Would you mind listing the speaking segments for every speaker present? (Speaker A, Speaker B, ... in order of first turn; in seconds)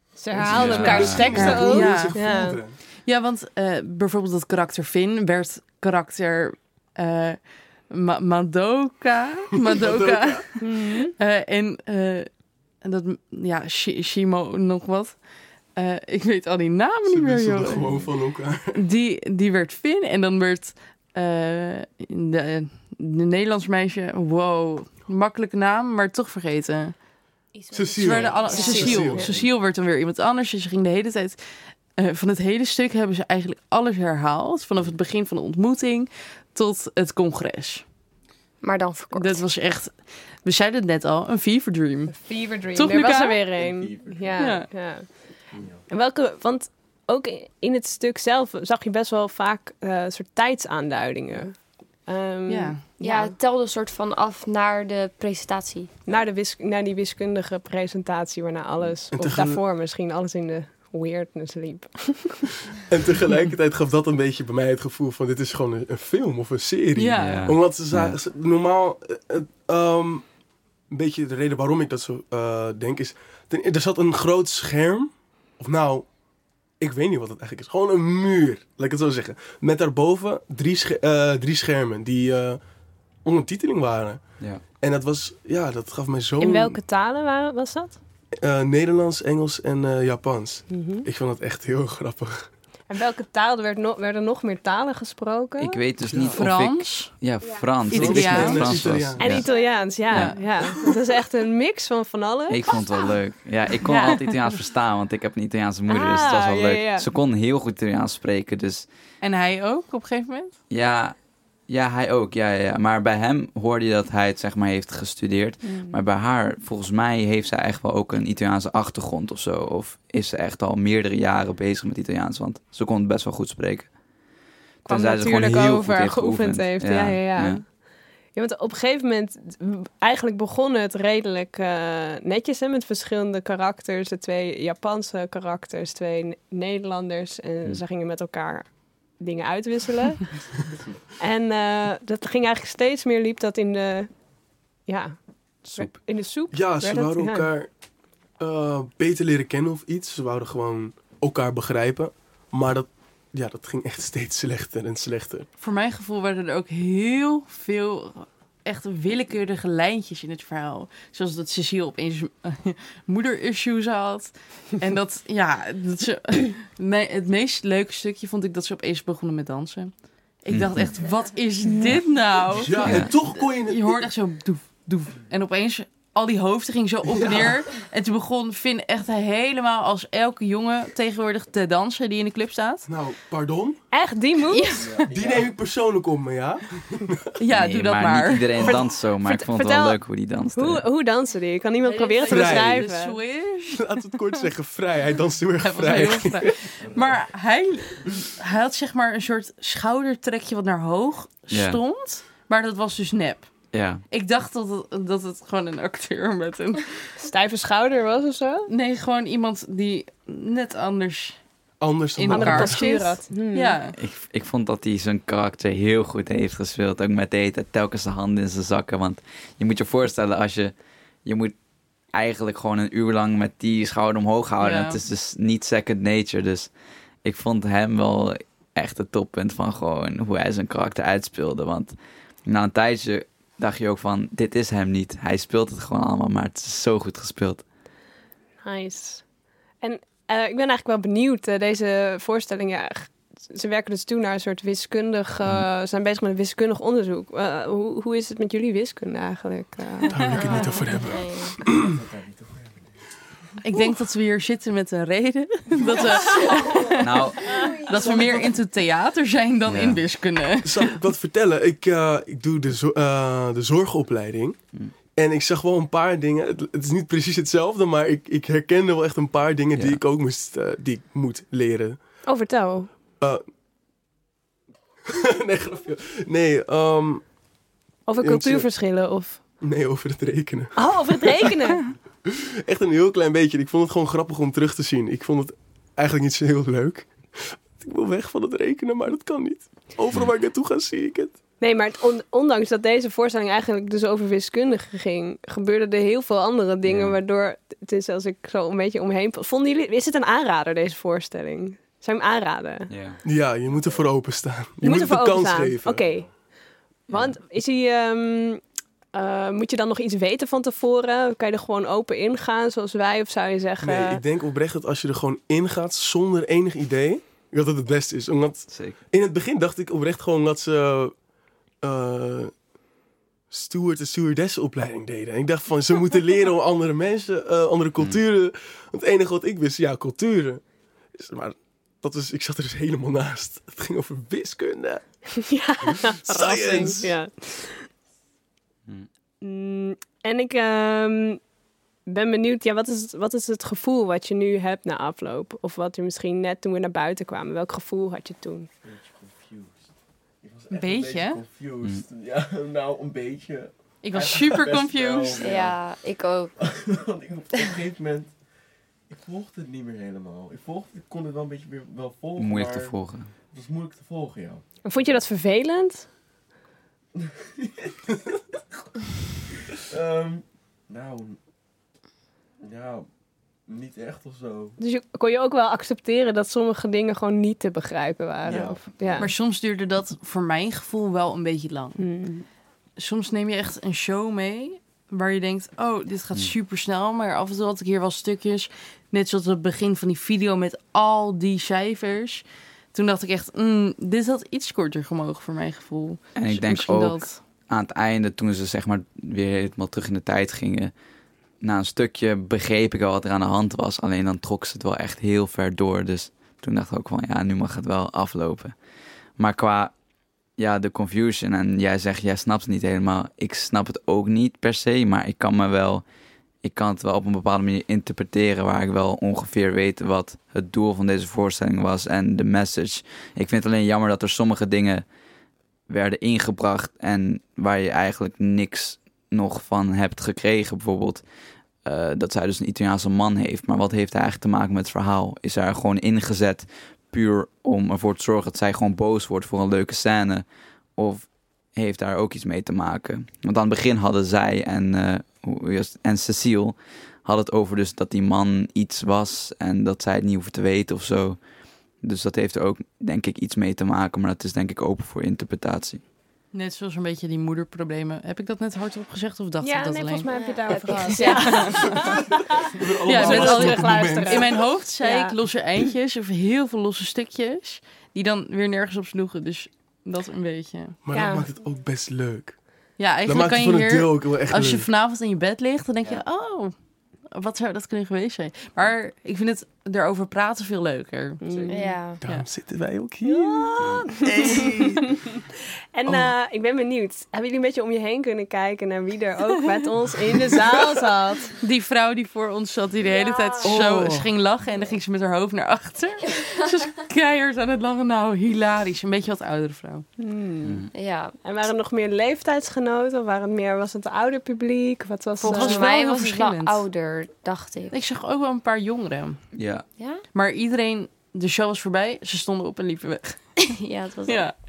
Speaker A: 0.2-2.6, 10.6-11.1, 27.5-29.4, 42.1-45.1, 45.9-51.5, 52.1-53.3, 56.0-62.5, 86.4-88.0, 90.7-91.0, 92.9-95.8, 99.2-102.8, 105.9-107.1, 115.6-116.0, 124.9-127.8, 128.3-140.3, 141.2-144.1, 144.8-147.5, 183.9-184.9, 188.6-190.0, 190.5-193.2, 207.2-208.7, 212.2-213.8, 238.6-239.2, 239.8-250.5, 272.2-272.9, 278.1-279.4, 280.8-281.8, 291.6-302.9, 304.8-306.3, 307.1-308.6, 309.1-314.2, 335.4-337.9, 339.4-341.4, 342.1-348.7, 364.8-366.1, 374.8-379.3, 382.0-382.4, 459.6-465.4, 471.1-471.5, 481.4-481.9, 483.2-485.4, 485.9-491.6, 500.2-500.9, 501.4-505.9
Speaker B: 0.3-2.8, 9.7-10.4, 17.1-18.8, 27.7-29.3, 59.1-59.6, 62.9-70.2, 70.9-76.1, 76.8-82.6, 83.2-84.2, 84.8-86.8, 88.4-92.5, 96.0-96.4, 97.9-99.4, 146.5-147.7, 148.4-155.5, 172.5-174.0, 177.1-177.6, 182.9-183.8, 185.1-187.3, 192.3-192.9, 193.7-196.5, 211.8-212.8, 250.1-251.9, 260.6-264.6, 265.1-272.0, 275.1-277.2, 278.2-278.7, 279.6-281.6, 282.2-291.4, 303.2-306.0, 313.8-321.1, 321.8-322.5, 323.5-330.6, 331.1-335.0, 336.2-337.1, 462.7-464.6, 471.0-472.6, 473.2-474.9, 482.2-485.1, 486.1-486.3, 493.6-494.3
Speaker C: 0.4-1.6, 67.2-68.2, 95.6-99.5, 100.1-100.3, 102.5-108.9, 110.7-111.2, 111.7-123.9, 124.8-127.6, 145.6-146.0, 170.5-170.9, 172.8-173.1, 187.5-190.8, 201.5-201.8, 203.7-204.0, 214.0-220.7, 221.2-221.5, 222.1-226.7, 227.2-231.9, 232.5-237.6, 257.0-257.6, 259.6-260.0, 296.8-297.2, 302.9-303.2, 307.1-307.4, 318.7-319.0, 362.4-363.3, 396.4-400.9, 401.6-408.8, 409.4-409.9, 410.6-416.0, 416.6-425.0, 425.9-431.2, 431.8-440.4, 440.9-451.4, 452.0-456.0, 483.8-484.1, 500.6-500.9, 509.5-509.9
Speaker D: 0.8-2.5, 3.0-7.4, 7.9-12.3, 12.8-15.2, 15.8-17.8, 18.7-26.9, 28.0-31.4, 32.0-37.8, 39.1-42.1, 42.7-43.4, 44.4-44.7, 52.5-52.8, 67.0-67.5, 96.3-97.1, 97.9-99.1, 100.1-100.4, 103.8-104.3, 109.2-110.6, 155.6-169.9, 170.4-182.9, 184.5-185.0, 187.4-188.7, 191.8-193.9, 195.6-203.5, 204.1-206.9, 208.7-211.4, 212.2-213.9, 224.6-225.0, 253.6-260.9, 350.7-351.4, 354.0-355.5, 379.2-382.0, 383.0-392.4, 392.9-397.4, 456.5-462.1, 463.1-471.0, 473.0-476.7, 477.3-481.4, 491.6-500.1, 505.4-506.8, 507.9-509.4, 510.3-513.7, 514.2-514.5
Speaker E: 29.2-29.4, 43.5-44.5, 45.5-45.8, 184.7-185.6, 196.8-197.2, 251.6-253.0, 303.6-304.1, 348.8-349.9, 350.4-355.8, 356.6-358.3, 359.1-363.0, 363.5-365.2, 367.1-368.6, 369.7-371.4, 372.6-373.1, 373.7-374.8, 378.4-379.3
Speaker F: 38.6-39.4, 53.0-55.9, 250.3-251.6, 355.4-356.5, 460.3-462.1, 481.7-482.2, 493.1-493.7, 500.9-501.4, 505.4-507.9, 510.0-510.2, 513.7-514.5